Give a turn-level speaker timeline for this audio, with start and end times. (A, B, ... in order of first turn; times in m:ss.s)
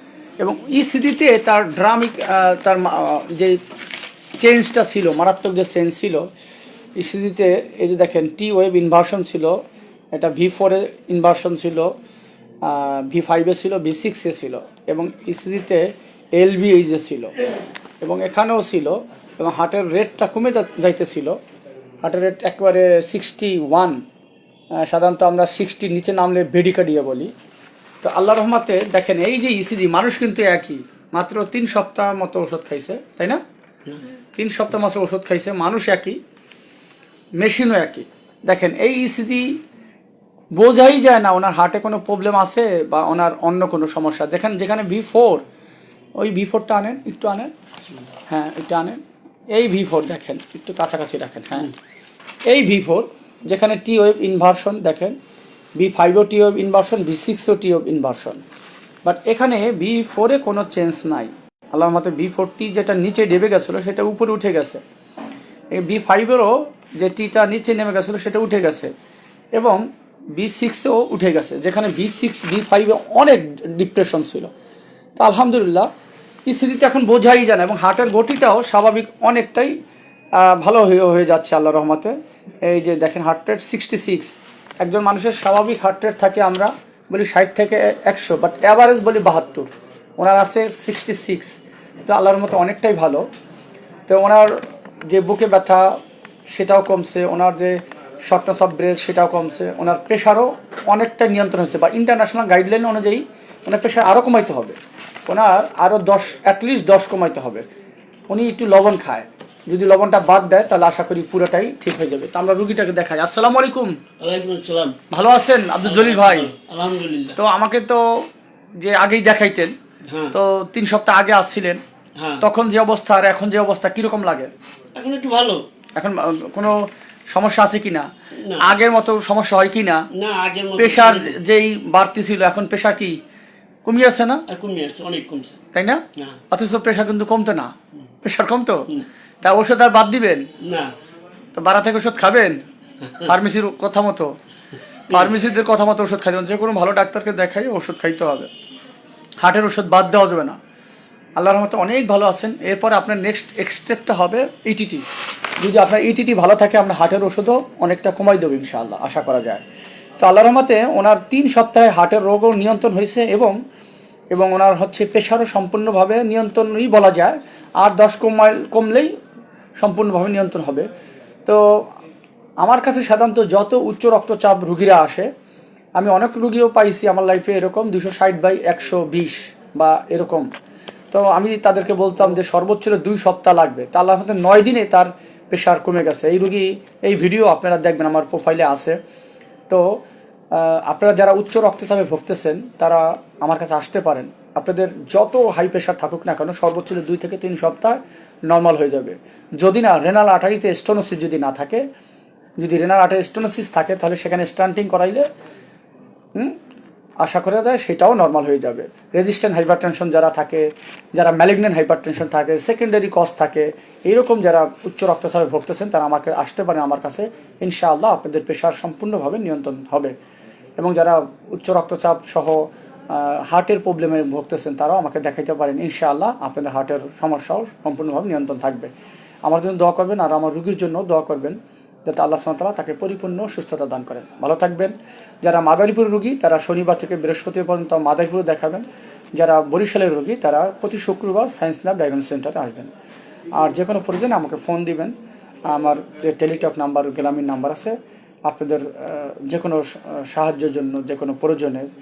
0:00.4-0:03.6 A
0:04.4-0:06.2 A
0:07.0-0:09.6 A
0:10.1-0:11.9 A
0:12.6-0:17.3 A
0:18.0-0:21.4 A
0:22.0-0:24.0 A
0:24.8-0:27.3 A
0:28.0-0:33.4 A
0:34.4-0:36.2 A
0:37.4-0:39.5 A
0:40.6-0:45.4 A
0:46.2-0:47.5 A
0:48.3-0:49.0 A
0:49.5-0:51.7 A
0:52.5-0:55.2 A
0:55.8-0:58.4 A
0:59.0-1:04.8 A
1:05.7-1:08.9 A
1:09.6-1:09.8 A
1:10.3-1:14.5 A
1:15.2-1:15.9 A
1:16.5-1:19.7 A
1:20.4-1:22.1 A
1:22.7-1:33.2 A
1:34.1-1:34.6 A
1:35.1-1:35.9 A
1:36.5-1:44.8 A
1:45.3-1:47.6 A
1:48.3-1:54.0 A
1:54.2-1:55.0 B
1:55.1-1:56.5 A
1:55.8-1:57.4 B
1:57.4-1:58.0 A
1:58.8-1:59.7 A
2:00.1-2:00.3 B
2:00.3-2:01.8 A
2:02.2-2:02.4 B
2:02.4-2:04.5 A
2:05.0-2:05.6 B
2:06.0-2:10.1 A
2:08.4-2:08.8 B
2:10.1-2:11.4 B
2:10.8-2:13.2 A
2:13.9-2:14.4 A
2:14.5-2:15.6 B
2:15.7-2:17.7 A
2:18.2-2:18.8 A
2:19.4-2:20.5 A
2:20.6-2:20.9 B
2:21.6-2:22.6 A
2:23.0-2:23.3 B
2:23.2-2:24.3 A
2:25.1-2:28.5 A
2:29.4-2:30.6 A
2:31.4-2:35.0 A
2:35.6-2:39.6 A
2:40.2-2:43.6 A
2:44.3-2:49.1 A
2:49.8-2:50.9 A
2:52.6-2:55.3 A
2:56.0-3:00.5 A
3:01.1-3:09.0 A
3:09.7-3:09.9 A
3:10.5-3:21.8 A
3:22.6-3:25.3 A
3:27.2-3:40.1 A
3:40.8-3:48.9 A
3:49.4-3:51.6 A
3:52.1-4:02.9 A
4:03.6-4:05.1 A
4:05.7-4:08.0 A
4:08.5-4:11.9 A